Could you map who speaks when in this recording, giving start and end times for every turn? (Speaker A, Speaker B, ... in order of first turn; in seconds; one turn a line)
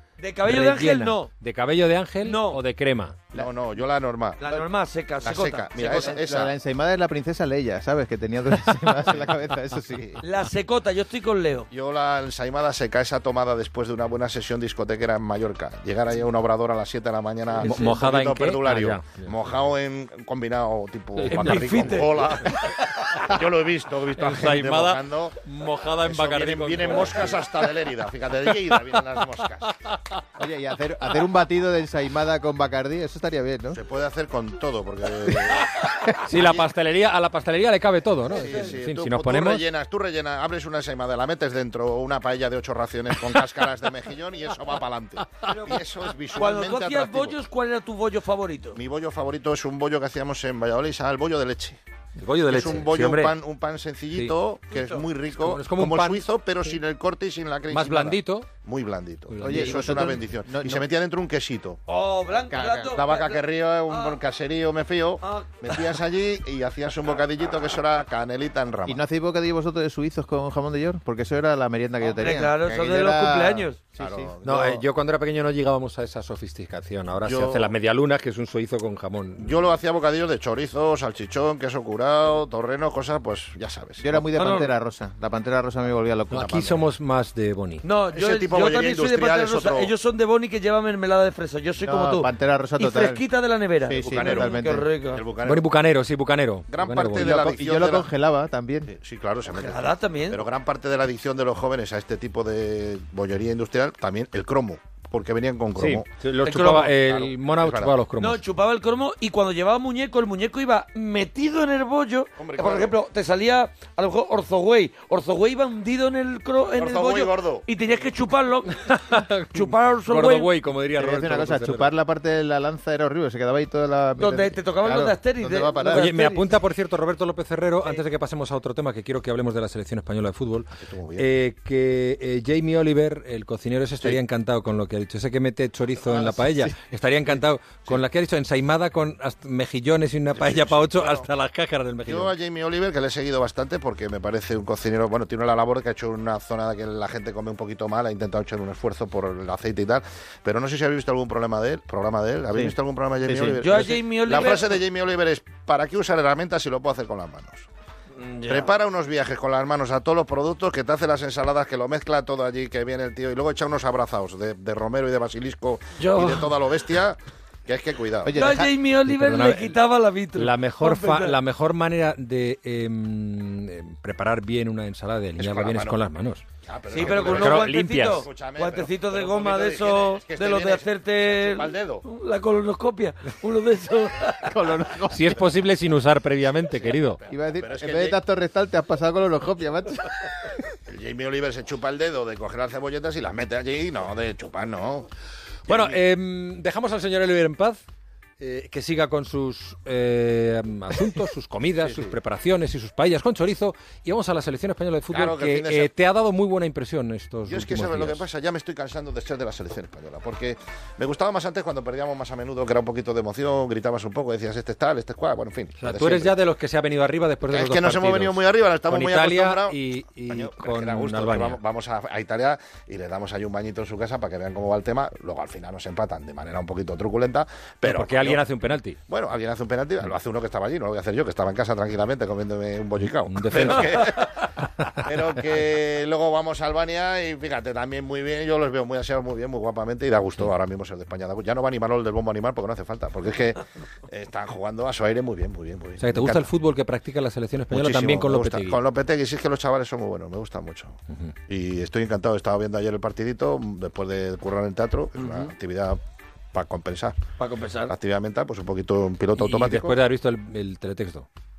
Speaker A: 0.2-1.3
Speaker B: 0.5-3.2
Speaker A: 2.2-2.6
Speaker C: 3.3-4.4
Speaker A: 4.4-6.2
Speaker C: 5.2-6.5
Speaker D: 5.8-10.2
Speaker C: 9.0-9.3
Speaker A: 10.2-11.7
Speaker C: 11.7-25.4
Speaker B: 17.6-19.5
Speaker A: 17.6-18.0
Speaker B: 21.2-22.0
Speaker A: 21.3-22.3
Speaker B: 22.8-23.4
Speaker B: 24.1-27.9
Speaker C: 26.0-29.7
Speaker B: 28.5-29.0
Speaker B: 29.9-30.2
Speaker D: 30.4-33.8
Speaker C: 33.7-36.7
Speaker B: 36.0-39.6
Speaker C: 38.3-47.4
Speaker A: 46.3-48.8
Speaker C: 48.7-51.8
Speaker B: 52.2-53.4
Speaker C: 52.5-61.8
Speaker A: 54.7-55.0
Speaker B: 55.3-56.8
Speaker B: 57.7-58.5
Speaker B: 59.3-60.2
Speaker D: 59.4-60.9
Speaker A: 61.9-64.2
Speaker D: 62.5-62.9
Speaker C: 62.9-69.0
Speaker A: 65.2-65.9
Speaker D: 68.9-74.3
Speaker C: 72.0-72.4
Speaker A: 72.2-73.8
Speaker C: 74.0-74.8
Speaker B: 74.4-79.6
Speaker C: 77.2-77.7
Speaker C: 79.4-84.2
Speaker D: 84.0-86.9
Speaker A: 84.3-84.7
Speaker B: 86.3-87.8
Speaker A: 87.8-95.2
Speaker C: 88.1-89.9
Speaker D: 91.8-93.2
Speaker D: 93.8-94.9
Speaker C: 94.0-95.7
Speaker B: 95.4-97.3
Speaker C: 96.7-98.1
Speaker D: 97.2-98.9
Speaker C: 98.8-106.1
Speaker A: 99.5-100.5
Speaker B: 105.8-108.4
Speaker A: 106.4-107.0
Speaker C: 107.0-108.0
Speaker A: 108.2-118.8
Speaker C: 112.4-113.0
Speaker C: 116.8-117.7
Speaker B: 118.7-121.9
Speaker A: 119.5-120.5
Speaker D: 121.0-126.2
Speaker A: 124.2-126.5
Speaker B: 125.9-142.3
Speaker C: 130.7-131.3
Speaker D: 136.1-136.7
Speaker C: 140.3-141.3
Speaker C: 142.1-157.7
Speaker D: 153.2-153.6
Speaker A: 153.6-154.8
Speaker A: 158.2-158.7
Speaker C: 158.5-168.4
Speaker A: 166.0-166.6
Speaker D: 168.2-168.7
Speaker A: 168.3-171.4
Speaker B: 169.1-169.8
Speaker B: 170.3-176.4
Speaker C: 175.4-176.0
Speaker C: 176.7-182.1
Speaker A: 176.9-184.7
Speaker B: 177.0-178.3
Speaker D: 184.4-185.3
Speaker B: 185.1-187.2
Speaker C: 186.8-188.2
Speaker D: 187.3-190.6
Speaker C: 190.9-195.1
Speaker C: 195.7-196.0
Speaker B: 195.7-197.8
Speaker B: 198.4-208.3
Speaker C: 201.8-202.2
Speaker C: 205.1-205.9
Speaker C: 207.5-216.4
Speaker B: 215.8-221.6
Speaker C: 217.5-228.4
Speaker B: 227.8-229.0
Speaker C: 229.1-246.5
Speaker B: 233.2-234.2
Speaker B: 246.0-248.8
Speaker C: 247.7-251.0
Speaker C: 251.5-256.0
Speaker A: 255.2-255.5
Speaker C: 256.5-257.2
Speaker A: 257.4-257.9
Speaker C: 257.9-260.0
Speaker B: 259.4-261.3